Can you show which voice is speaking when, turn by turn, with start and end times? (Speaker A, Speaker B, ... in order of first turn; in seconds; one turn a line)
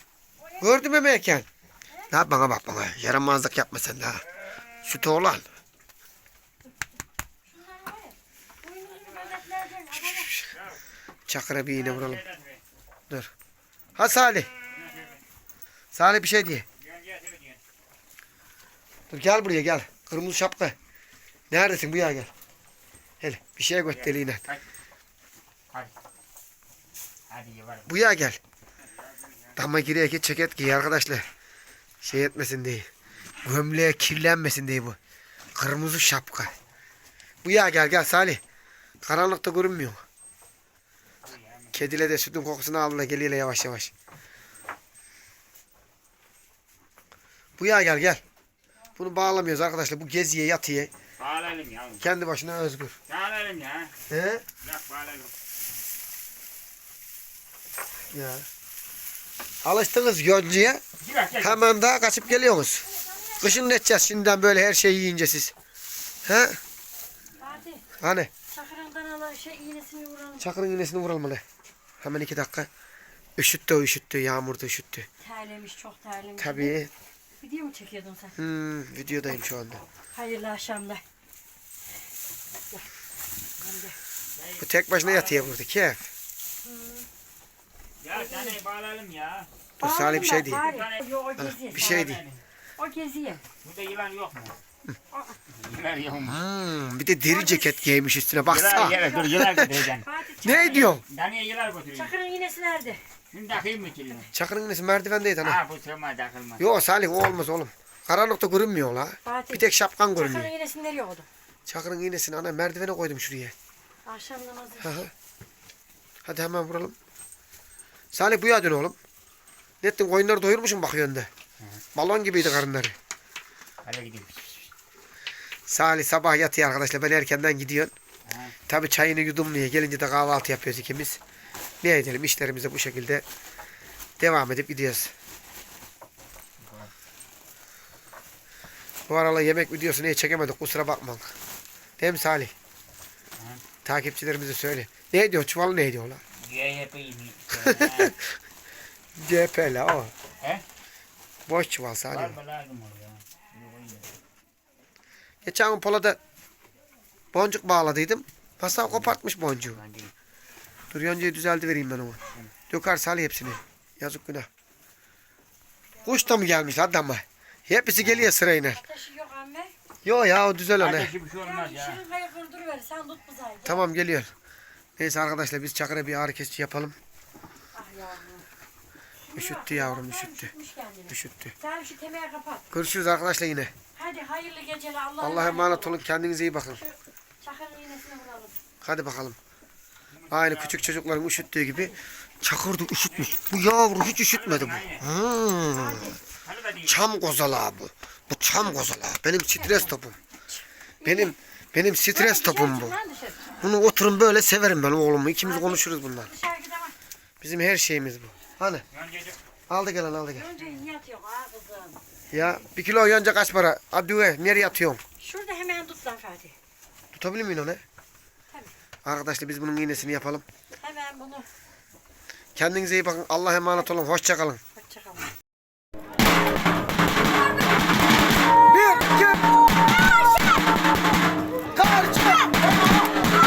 Speaker A: 0.6-1.5
Speaker A: 2.1-4.2
Speaker A: 4.8-5.5
Speaker B: 7.5-10.4
Speaker A: 10.0-10.5
Speaker C: 10.5-10.8
Speaker A: 11.3-12.2
Speaker C: 11.7-12.6
Speaker A: 14.0-14.5
Speaker C: 14.7-15.2
Speaker A: 15.9-16.7
Speaker C: 16.8-17.6
Speaker A: 19.1-20.8
Speaker A: 21.5-22.3
Speaker A: 23.2-24.4
Speaker C: 23.9-24.6
Speaker C: 27.3-27.9
Speaker A: 27.9-28.4
Speaker C: 28.8-29.6
Speaker A: 29.6-31.3
Speaker A: 32.0-32.9
Speaker A: 33.4-35.0
Speaker A: 35.5-36.5
Speaker A: 37.4-38.4
Speaker A: 39.0-40.0
Speaker C: 41.2-41.9
Speaker A: 41.7-43.9
Speaker A: 47.6-48.2
Speaker A: 49.0-50.9
Speaker C: 51.2-52.1
Speaker A: 52.0-53.0
Speaker C: 53.1-53.9
Speaker A: 54.1-54.4
Speaker C: 54.6-55.3
Speaker A: 58.1-58.5
Speaker A: 59.6-60.8
Speaker C: 61.0-61.6
Speaker A: 61.4-62.9
Speaker B: 62.8-63.6
Speaker A: 63.4-65.5
Speaker A: 66.2-66.6
Speaker B: 67.4-67.8
Speaker A: 68.0-68.3
Speaker B: 68.5-70.5
Speaker A: 70.4-71.4
Speaker A: 72.0-72.7
Speaker A: 73.4-75.1
Speaker B: 75.2-76.8
Speaker A: 76.4-76.9
Speaker B: 77.4-78.4
Speaker A: 78.4-79.8
Speaker B: 80.1-81.0
Speaker B: 83.6-84.0
Speaker C: 84.3-85.6
Speaker A: 84.6-86.1
Speaker B: 86.6-87.1
Speaker C: 88.0-89.5
Speaker B: 88.1-88.6
Speaker A: 89.8-90.6
Speaker B: 89.8-92.1
Speaker C: 90.5-91.2
Speaker A: 91.4-92.2
Speaker C: 91.7-92.4
Speaker B: 92.8-93.4
Speaker C: 93.6-94.6
Speaker B: 95.1-95.4
Speaker C: 95.5-96.4
Speaker A: 96.3-99.8
Speaker B: 97.3-97.9
Speaker C: 98.5-102.2
Speaker B: 98.7-100.9
Speaker A: 100.4-101.0
Speaker B: 102.0-103.0
Speaker C: 103.3-104.3
Speaker A: 104.3-105.6
Speaker C: 105.4-106.6
Speaker A: 106.6-110.5
Speaker B: 109.2-111.3
Speaker A: 111.7-113.5
Speaker B: 114.1-115.0
Speaker A: 114.8-115.1
Speaker A: 116.2-117.0
Speaker A: 118.1-119.0
Speaker A: 119.8-121.3
Speaker A: 122.0-123.0
Speaker C: 123.8-124.7
Speaker A: 125.7-127.9
Speaker C: 128.3-128.6
Speaker A: 128.7-131.2
Speaker A: 131.8-133.2
Speaker A: 134.2-135.1
Speaker C: 136.6-136.9
Speaker A: 139.1-141.3
Speaker A: 142.0-142.5
Speaker C: 143.4-143.6
Speaker A: 143.8-146.2
Speaker C: 146.3-148.2
Speaker A: 147.5-148.3
Speaker A: 149.2-150.1
Speaker A: 151.5-152.4
Speaker C: 152.1-154.2
Speaker A: 155.4-156.2
Speaker A: 157.3-159.8
Speaker C: 158.8-159.2
Speaker C: 159.7-160.1
Speaker A: 160.9-164.5
Speaker A: 166.0-168.8
Speaker C: 168.0-168.3
Speaker B: 168.7-169.7
Speaker A: 170.1-171.1
Speaker C: 170.8-172.0
Speaker B: 171.4-173.9
Speaker A: 173.7-174.3
Speaker A: 175.0-177.0
Speaker B: 177.7-178.5
Speaker B: 179.3-182.7
Speaker A: 179.3-180.5
Speaker A: 181.1-181.5
Speaker A: 182.7-183.7
Speaker B: 183.9-186.0
Speaker A: 185.2-186.8
Speaker B: 186.8-188.6
Speaker A: 188.8-189.4
Speaker C: 190.1-191.1
Speaker A: 190.3-196.2
Speaker B: 191.6-192.0
Speaker C: 193.1-195.1
Speaker B: 195.7-196.2
Speaker C: 196.3-197.1
Speaker A: 196.9-200.2
Speaker B: 199.6-199.9
Speaker B: 200.5-201.3
Speaker A: 201.1-202.9
Speaker B: 202.1-203.6
Speaker A: 203.6-206.3
Speaker B: 205.4-206.9
Speaker A: 207.4-208.8
Speaker C: 208.9-209.4
Speaker A: 209.7-210.5
Speaker B: 210.3-212.0
Speaker A: 212.3-215.0
Speaker C: 212.4-212.7
Speaker B: 215.2-216.6
Speaker A: 217.1-217.8
Speaker A: 219.1-220.4
Speaker B: 220.8-221.5
Speaker A: 222.6-224.6
Speaker B: 224.7-225.3
Speaker A: 228.7-229.5
Speaker A: 231.8-232.6